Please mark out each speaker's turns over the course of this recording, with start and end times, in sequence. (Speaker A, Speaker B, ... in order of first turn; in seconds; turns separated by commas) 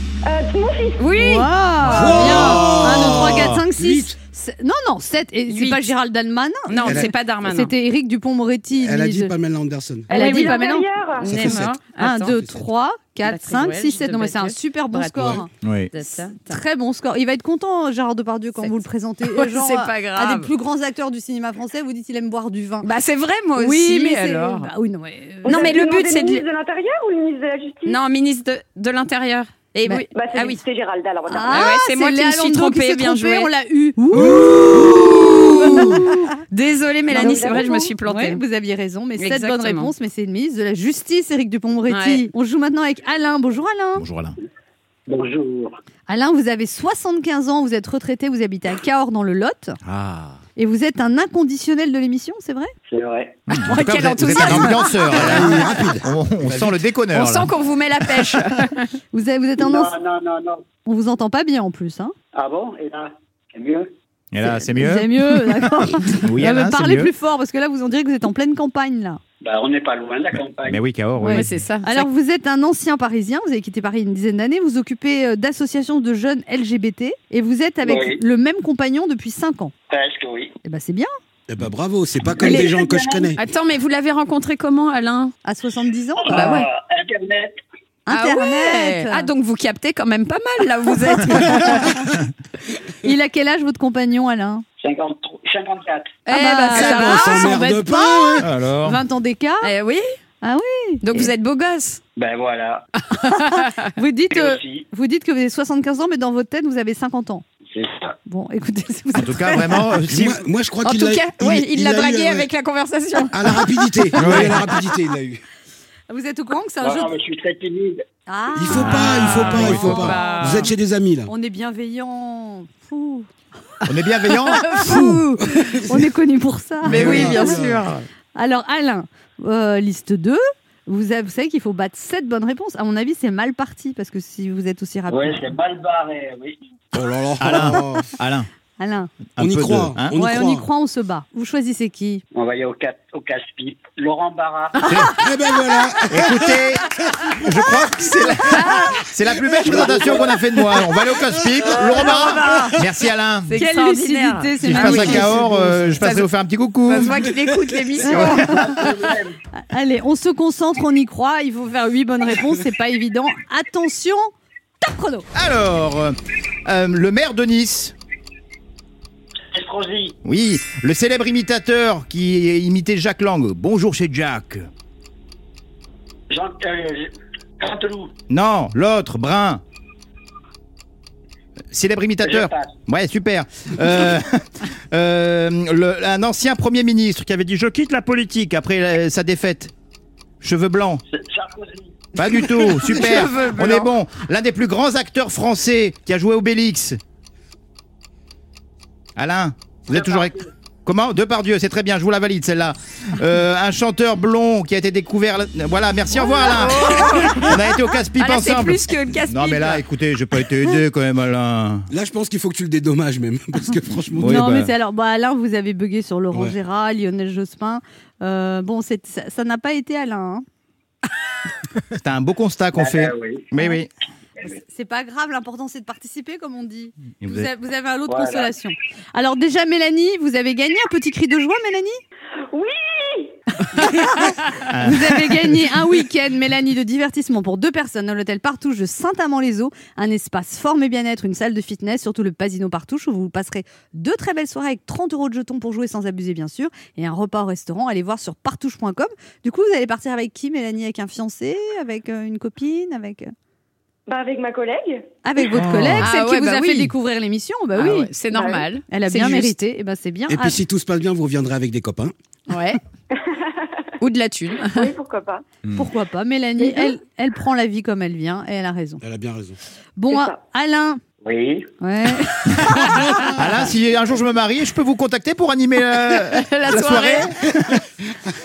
Speaker A: 0.2-1.1, Speaker B: 1.0-2.8, Speaker C: 1.2-9.3, Speaker D: 1.8-4.2, Speaker E: 2.5-3.6, Speaker B: 5.5-5.9, Speaker B: 6.7-7.7, Speaker D: 6.8-7.1, Speaker D: 8.8-10.1, Speaker A: 10.1-11.3, Speaker C: 10.1-10.9, Speaker B: 10.1-12.4, Speaker D: 11.3-11.8, Speaker C: 11.5-15.5, Speaker B: 13.2-16.6, Speaker E: 15.6-15.9, Speaker C: 16.0-22.9, Speaker B: 18.6-20.5, Speaker B: 22.8-24.7, Speaker C: 23.6-25.8, Speaker B: 25.4-26.4, Speaker A: 25.4-28.0, Speaker B: 27.9-30.6, Speaker A: 30.1-31.7, Speaker C: 31.3-36.3, Speaker B: 31.5-33.5, Speaker B: 34.1-38.4, Speaker D: 34.2-36.0, Speaker A: 37.1-37.9, Speaker C: 37.1-44.0, Speaker B: 39.2-39.9, Speaker B: 41.9-42.2, Speaker E: 43.9-44.4, Speaker F: 45.1-45.8, Speaker C: 46.1-49.8, Speaker E: 49.8-50.4, Speaker C: 50.5-52.7, Speaker F: 52.9-53.4, Speaker E: 53.5-57.5, Speaker B: 53.5-55.3, Speaker D: 54.5-56.8, Speaker B: 57.1-58.9, Speaker C: 59.1-59.9, Speaker F: 59.6-60.6, Speaker C: 60.9-62.1, Speaker F: 62.3-63.9, Speaker E: 64.3-67.1, Speaker C: 64.4-69.2, Speaker F: 69.4-70.8, Speaker E: 70.6-71.6, Speaker C: 71.2-79.7, Speaker B: 71.2-72.1, Speaker F: 77.8-78.2, Speaker F: 79.9-80.5, Speaker C: 80.6-81.1, Speaker D: 81.5-83.4, Speaker F: 82.4-83.3, Speaker B: 83.3-85.3, Speaker C: 85.4-86.7, Speaker F: 86.2-87.6, Speaker B: 86.3-86.7, Speaker C: 88.1-89.3, Speaker B: 88.1-92.0, Speaker C: 93.0-94.6, Speaker F: 94.8-96.2, Speaker B: 96.2-97.8, Speaker C: 96.3-99.7, Speaker D: 96.7-98.5, Speaker E: 98.4-99.0, Speaker B: 99.6-100.0, Speaker C: 100.4-101.3, Speaker B: 101.0-102.0, Speaker F: 102.2-102.8, Speaker B: 103.1-103.9, Speaker C: 103.2-107.4, Speaker F: 104.3-104.9, Speaker F: 107.7-108.2, Speaker C: 108.2-109.9, Speaker E: 109.1-110.4, Speaker D: 110.0-112.5, Speaker B: 110.8-114.4, Speaker D: 113.3-115.4, Speaker E: 114.1-114.7, Speaker C: 116.1-117.1, Speaker F: 116.8-118.0, Speaker C: 118.3-120.7, Speaker D: 118.5-121.3, Speaker E: 118.7-120.2, Speaker B: 119.2-120.7, Speaker C: 121.3-123.3, Speaker E: 123.8-124.9, Speaker C: 124.5-127.6, Speaker D: 124.8-126.0, Speaker E: 126.8-127.4, Speaker D: 126.8-127.8, Speaker B: 126.9-128.0, Speaker C: 128.3-135.5, Speaker F: 135.1-136.6, Speaker D: 136.9-138.1, Speaker E: 137.4-138.5, Speaker C: 138.8-139.1, Speaker E: 139.4-140.1, Speaker D: 139.4-140.7, Speaker C: 140.2-142.2, Speaker F: 142.3-145.0, Speaker E: 144.8-145.1, Speaker D: 145.1-147.3, Speaker E: 146.1-153.6, Speaker D: 149.6-150.1, Speaker B: 152.0-152.7, Speaker C: 152.1-152.7, Speaker B: 153.4-155.5, Speaker C: 153.6-156.1, Speaker E: 154.6-157.3, Speaker B: 156.0-156.2, Speaker B: 156.8-158.8, Speaker C: 158.0-158.8, Speaker E: 158.1-158.6, Speaker F: 158.5-159.3, Speaker C: 159.7-165.3, Speaker E: 165.3-167.9, Speaker F: 169.5-170.2, Speaker E: 170.2-174.7, Speaker F: 176.3-178.1, Speaker E: 178.3-179.6, Speaker E: 181.7-189.7, Speaker F: 182.2-182.7, Speaker E: 190.4-191.0, Speaker F: 191.1-192.5, Speaker E: 192.1-197.0, Speaker B: 192.8-193.9, Speaker E: 199.2-211.9, Speaker F: 199.9-200.4, Speaker B: 206.2-209.8, Speaker D: 211.9-214.4, Speaker E: 214.1-214.7, Speaker C: 214.2-220.4, Speaker E: 221.9-223.9, Speaker F: 222.7-223.5, Speaker C: 224.7-232.0, Speaker E: 227.2-227.5, Speaker F: 228.1-228.5, Speaker A: 232.5-233.4, Speaker C: 233.7-253.3, Speaker E: 234.7-235.5, Speaker A: 254.1-255.1, Speaker C: 255.2-258.1, Speaker E: 255.6-256.1, Speaker B: 256.0-256.9, Speaker B: 257.7-259.6, Speaker A: 258.3-258.6, Speaker C: 258.9-260.6, Speaker D: 260.3-262.1, Speaker B: 262.5-262.8, Speaker A: 263.1-263.8, Speaker B: 264.0-264.9, Speaker A: 264.6-265.4, Speaker C: 265.7-269.0, Speaker D: 269.0-269.6, Speaker C: 270.0-271.0, Speaker A: 270.1-270.4, Speaker F: 271.2-271.7, Speaker C: 271.8-272.8, Speaker E: 273.3-277.8, Speaker B: 276.1-277.3